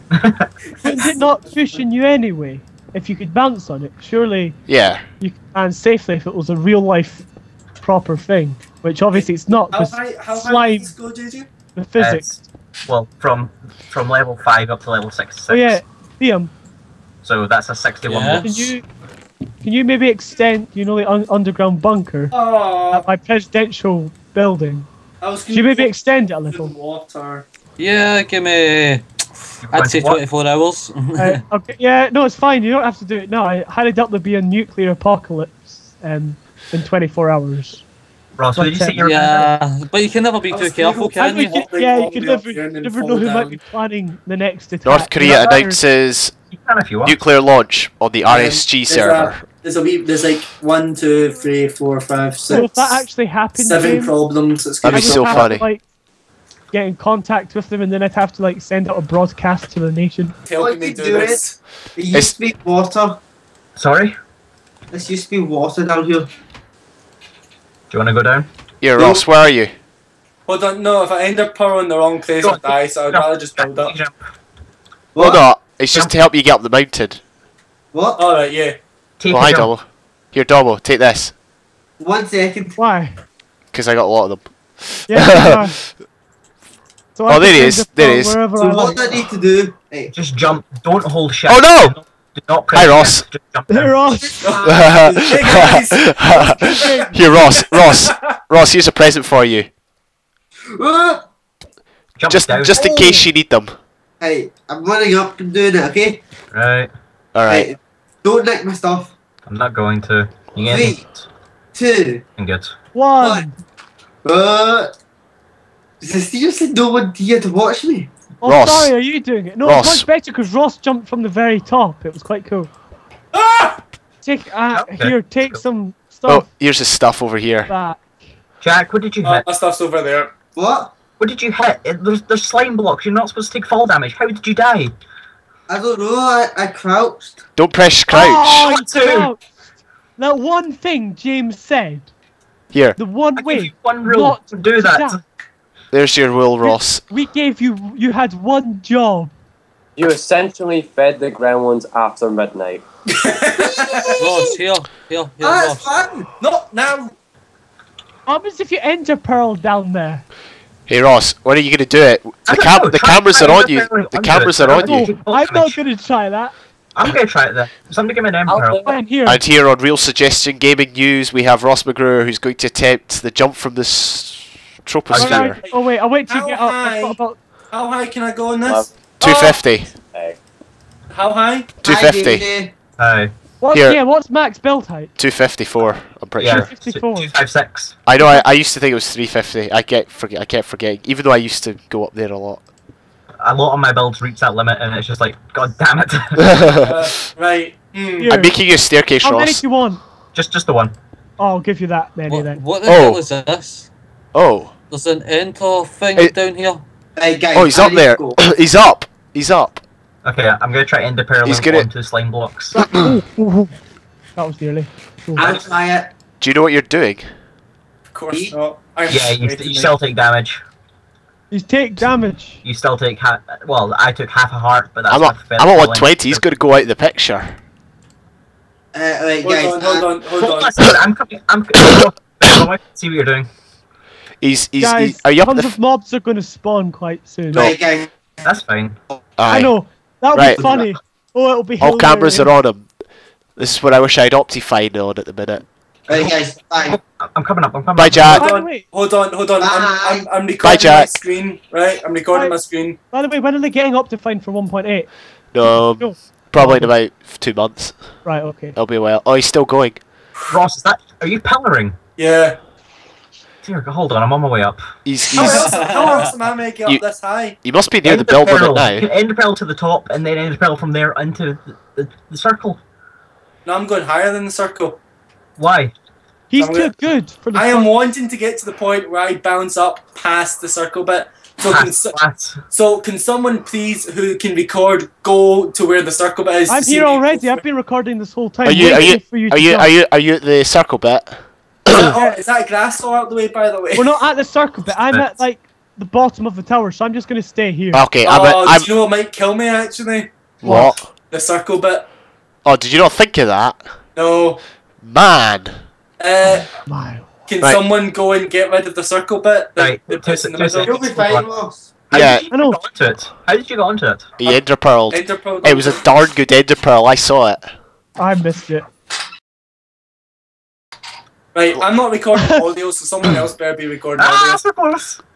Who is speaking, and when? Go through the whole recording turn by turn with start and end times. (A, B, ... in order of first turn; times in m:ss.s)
0:00.1-0:00.5 A
0:00.8-0:01.8 B
0:00.8-0:04.6 C
0:04.7-0:05.0 D
0:05.2-0:07.2 C
0:07.8-0:10.9 C
0:09.1-0:11.5 B
0:11.8-0:12.3 C
0:12.0-0:15.8 A
0:15.5-0:16.5 C
0:17.2-0:18.6 A
0:18.0-0:18.6 E
0:18.4-0:18.8 C
0:19.6-0:22.3 C
0:22.3-0:23.0 B
0:22.9-0:24.9 C
0:25.2-0:25.9 B
0:25.5-0:26.7 C
0:26.5-0:27.4 B
0:27.8-0:29.0 E
0:29.6-0:30.2 A
0:29.7-0:31.4 E
0:31.2-0:37.8 C
0:38.4-0:39.5 A
0:38.6-0:39.0 C
0:39.0-0:41.6 E
0:40.5-0:43.6 B
0:41.2-0:45.8 C
0:44.8-0:46.3 D
0:46.5-0:47.2 A
0:47.0-0:49.4 D
0:48.2-0:55.5 B
0:52.5-0:54.1 C
0:54.8-0:55.7 D
0:54.9-0:55.8 C
0:56.7-1:00.3 C
1:00.5-1:01.6 B
1:00.6-1:01.4 F
1:02.0-1:03.2 F
1:03.8-1:04.2 A
1:04.9-1:06.3 F
1:07.9-1:08.5 A
1:08.8-1:09.7 D
1:09.0-1:09.2 B
1:10.5-1:13.9 B
1:12.4-1:14.2 A
1:15.1-1:15.4 F
1:15.2-1:17.2 D
1:17.9-1:18.2 F
1:18.2-1:18.8 B
1:19.2-1:19.7 A
1:19.3-1:21.3 D
1:22.0-1:22.8 F
1:22.8-1:23.1 C
1:23.7-1:25.7 D
1:25.1-1:25.8 C
1:27.1-1:29.2 C
1:27.3-1:28.4 D
1:28.6-1:30.1 F
1:30.1-1:34.0 A
1:31.5-1:32.0 D
1:32.7-1:33.2 D
1:33.7-1:34.4 C
1:34.2-1:35.0 F
1:34.4-1:38.3 B
1:34.6-1:39.7 D
1:36.3-1:37.2 C
1:40.7-1:41.2 F
1:42.2-1:42.9 A
1:42.3-1:43.8 D
1:42.7-1:43.3 C
1:44.2-1:46.2 F
1:46.5-1:46.9 A
1:47.3-1:47.8 D
1:47.4-1:49.1 F
1:49.4-1:51.2 A
1:50.7-1:51.0 F
1:51.7-1:52.2 F
1:52.4-1:52.7 A
1:52.9-1:53.6 C
1:53.2-1:53.4 F
1:54.2-1:54.9 F
1:56.0-1:58.1 F
1:58.4-2:02.7 C
1:58.4-1:58.9 D
1:59.6-2:00.1 D
2:03.3-2:03.8 B
2:04.2-2:06.5 C
2:04.7-2:05.6 A
2:06.3-2:07.7 D
2:07.7-2:08.2 C
2:08.6-2:09.4 A
2:09.2-2:10.3 B
2:10.5-2:11.0 F
2:11.2-2:14.9 A
2:15.7-2:17.4 F
2:17.6-2:18.7 D
2:18.1-2:19.5 C
2:18.1-2:19.3 A
2:20.2-2:22.1 C
2:22.7-2:23.0 D
2:23.0-2:25.2 C
2:23.4-2:25.2 A
2:25.9-2:27.0 D
2:26.6-2:29.3 C
2:30.0-2:32.8 G
2:33.1-2:34.2 B
2:33.6-2:34.6 F
2:34.2-2:35.9 E
2:35.4-2:36.3 F
2:36.4-2:37.1 B
2:38.3-2:40.2 C
2:40.9-2:45.0 D
2:42.5-2:45.8 A
2:44.8-2:46.5 C
2:46.9-2:48.8 A
2:48.5-2:49.0 G
2:48.8-2:49.4 C
2:49.2-2:55.6 D
2:55.1-2:57.4 C
2:55.1-2:55.6 A
2:55.6-2:57.2 B
2:57.7-2:59.6 B
2:58.6-2:58.9 G
2:59.2-2:59.9 D
3:00.0-3:00.4 G
3:01.1-3:01.7 B
3:01.8-3:02.5 D
3:01.8-3:02.7 F
3:03.0-3:03.3 A
3:03.6-3:05.1 C
3:03.7-3:04.0 D
3:05.2-3:06.7 D
3:06.4-3:07.3 C
3:06.4-3:08.0 A
3:08.0-3:12.6 D
3:08.2-3:08.4 C
3:13.4-3:16.7 A
3:16.4-3:17.1 D
3:16.8-3:18.3 B
3:18.2-3:20.0 C
3:18.2-3:19.6 D
3:20.3-3:20.9 A
3:21.4-3:22.6 C
3:22.3-3:23.9 E
3:22.8-3:23.2 D
3:24.3-3:24.7 D
3:24.9-3:26.8 E
3:27.2-3:28.4 F
3:27.5-3:29.8 D
3:30.2-3:32.8 A
3:31.4-3:31.9 D
3:32.7-3:33.7 C
3:34.4-3:35.6 C
3:35.4-3:36.1 F
3:35.4-3:35.6 A
3:36.4-3:37.3 D
3:38.1-3:39.9 B
3:39.1-3:40.6 A
3:41.5-3:42.6 C
3:42.6-3:46.4 A
3:45.1-3:47.6 D
3:48.9-3:50.1 F
3:49.4-3:50.7 B
3:50.4-3:53.5 A
3:54.4-3:55.8 D
3:54.8-3:57.7 C
3:57.5-3:58.1 F
3:58.4-3:59.0 A
3:59.4-3:59.7 D
3:59.5-4:02.5 C
4:00.3-4:00.7 D
4:00.6-4:00.8 F
4:01.8-4:02.9 D
4:03.6-4:05.6 D
4:06.1-4:07.0 F
4:06.9-4:08.5 A
4:07.9-4:08.4 D
4:08.2-4:13.0 B
4:08.4-4:08.8 C
4:09.6-4:10.3 F
4:10.6-4:11.1 D
4:12.3-4:15.1 C
4:15.5-4:20.0 D
4:15.6-4:16.9 C
4:18.2-4:18.8 C
4:20.5-4:22.0 A
4:22.2-4:22.6 B
4:23.6-4:24.8 A
4:25.0-4:25.9 D
4:25.3-4:27.6 B
4:25.4-4:25.7 A
4:25.4-4:26.3 E
4:27.6-4:29.1 D
4:28.0-4:32.8 A
4:33.6-4:35.0 B
4:35.6-4:35.9 A
4:36.5-4:37.9 C
4:36.6-4:36.9 B
4:37.5-4:42.2 B
4:41.6-4:42.6 A
4:42.7-4:47.6 B
4:46.7-4:49.9 C
4:48.6-4:52.1 D
4:51.9-4:54.2 B
4:52.0-4:52.4 C
4:53.9-4:58.0 C
4:57.9-4:58.9 D
4:58.2-5:00.8 B
5:00.6-5:01.1 D
5:00.6-5:00.9 C
5:01.3-5:02.1 B
5:02.6-5:03.9 D
5:04.1-5:04.6 B
5:05.0-5:05.8 D
5:06.2-5:06.7 B
5:06.7-5:07.3 C
5:07.5-5:11.3 B
5:09.8-5:11.5 A
5:10.8-5:11.9 F
5:12.1-5:14.3 A
5:12.1-5:12.5 D
5:12.5-5:12.8 C
5:14.4-5:17.7 D
5:14.4-5:16.0 B
5:18.2-5:18.9 C
5:21.5-5:24.6 B
5:22.4-5:22.6 C
5:24.2-5:25.2 A